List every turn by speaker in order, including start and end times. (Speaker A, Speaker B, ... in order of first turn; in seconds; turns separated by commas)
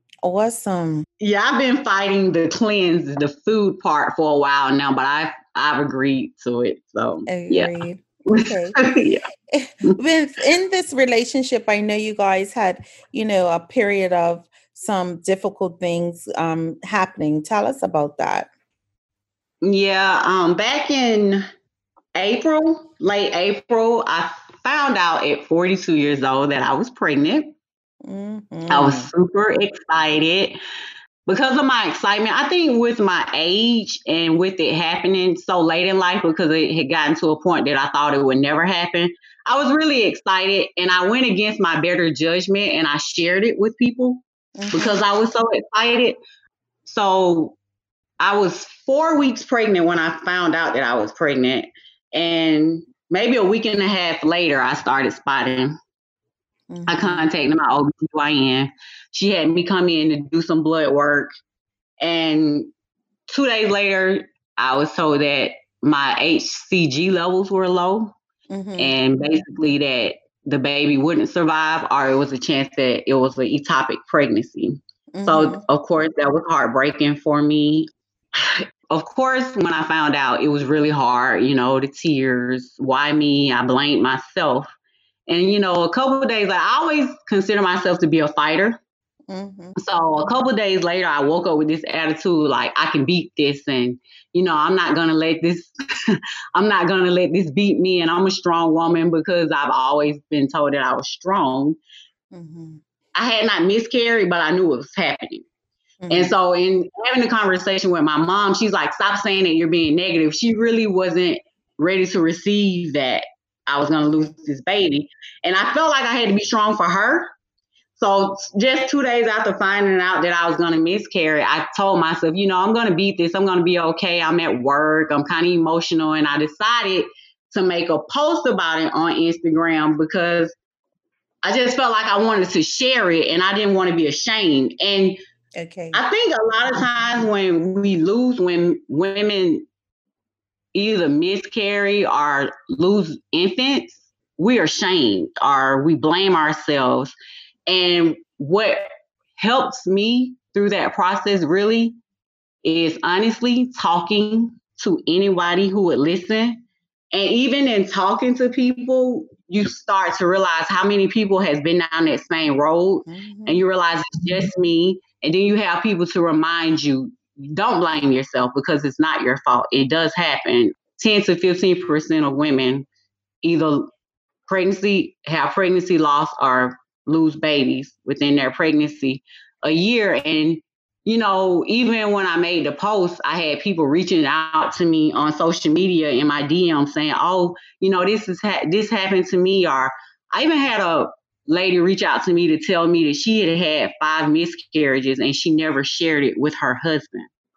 Speaker A: 0.2-1.1, Speaker B: 1.2-7.7, Speaker A: 7.3-8.8, Speaker B: 8.3-9.2, Speaker A: 9.5-18.5, Speaker B: 19.6-21.5, Speaker B: 22.2-27.5, Speaker A: 28.0-29.1, Speaker B: 28.7-30.6, Speaker B: 31.3-46.2, Speaker A: 44.6-45.0, Speaker B: 46.9-47.6, Speaker B: 48.2-55.8, Speaker A: 56.7-57.3, Speaker B: 56.9-61.3, Speaker B: 62.0-62.7, Speaker B: 63.3-68.2, Speaker A: 68.5-69.0, Speaker B: 68.8-84.7, Speaker A: 75.1-75.6, Speaker B: 85.3-88.8, Speaker A: 89.3-89.8, Speaker B: 89.8-101.8, Speaker A: 102.3-102.8, Speaker B: 103.2-105.5, Speaker A: 106.0-106.3, Speaker B: 106.1-117.3, Speaker B: 118.0-130.6, Speaker B: 131.4-135.2, Speaker A: 135.6-136.0, Speaker B: 135.9-139.7, Speaker B: 140.7-147.2, Speaker B: 147.7-152.0, Speaker B: 152.6-172.9, Speaker A: 163.1-163.6, Speaker B: 173.4-173.9, Speaker B: 174.5-197.3